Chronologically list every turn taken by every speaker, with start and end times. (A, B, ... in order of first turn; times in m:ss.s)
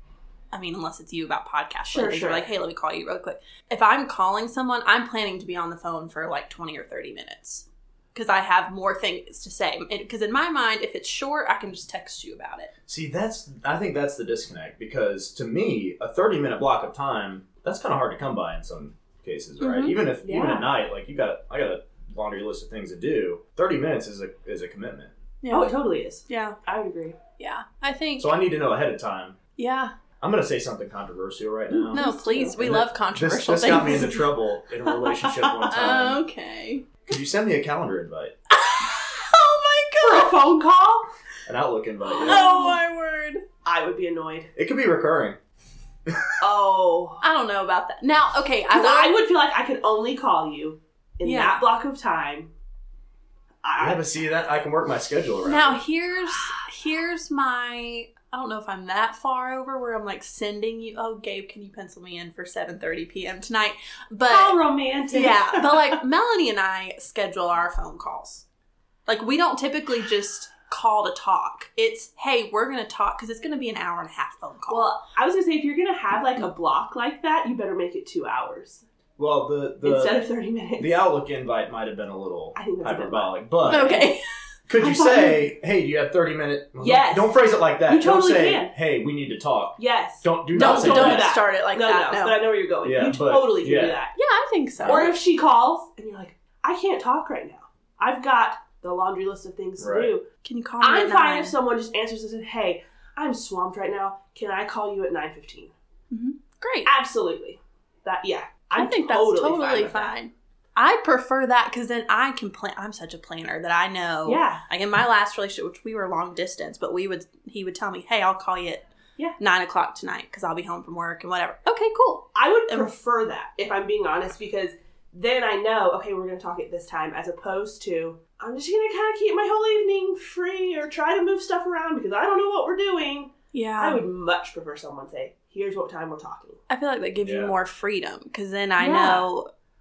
0:00.5-0:12.7 A
0:01.9-0:02.5 B
0:12.9-0:25.1 C
0:19.6-0:20.0 A
0:20.2-0:20.7 B
0:25.4-0:26.6 A
0:25.5-0:27.2 B
0:27.4-0:28.4 A
0:28.2-0:29.4 C
0:29.6-0:29.9 A
0:30.2-0:36.2 C
0:31.7-0:32.6 B
0:31.9-0:34.2 A
0:33.7-0:34.2 B
0:34.8-0:36.0 B
0:35.7-0:36.9 A
0:37.1-0:38.4 C
0:38.5-0:40.4 A
0:40.0-0:41.1 B
0:41.5-0:42.5 C
0:42.1-0:42.8 B
0:42.1-0:43.4 A
0:43.6-0:44.5 B
0:44.6-0:45.4 C
0:46.1-0:46.4 C
0:46.4-0:47.2 B
0:47.2-0:49.2 A
0:48.7-0:52.5 B
0:51.2-0:51.6 A
0:53.6-0:54.2 B
0:53.8-0:55.8 C
0:55.4-1:08.5 A
1:04.3-1:06.0 B
1:09.1-1:15.0 A
1:14.7-1:18.8 B
1:19.2-1:20.2 C
1:19.8-1:21.0 B
1:20.8-1:24.0 C
1:22.6-1:24.0 B
1:23.6-1:24.2 A
1:24.7-1:31.4 C
1:24.8-1:25.5 B
1:26.8-1:28.8 B
1:29.8-1:34.2 B
1:30.5-1:32.4 A
1:32.8-1:34.0 C
1:34.2-1:35.2 A
1:34.8-1:40.3 B
1:34.8-1:35.1 C
1:39.8-1:40.1 C
1:40.4-1:41.6 A
1:40.8-1:45.7 B
1:46.1-1:46.9 A
1:46.9-1:50.2 B
1:48.8-1:58.9 A
1:54.2-1:54.6 B
1:59.4-2:02.9 A
2:02.4-2:16.6 B
2:13.5-2:14.0 A
2:16.7-2:19.5 A
2:17.2-2:17.6 C
2:18.8-2:19.3 B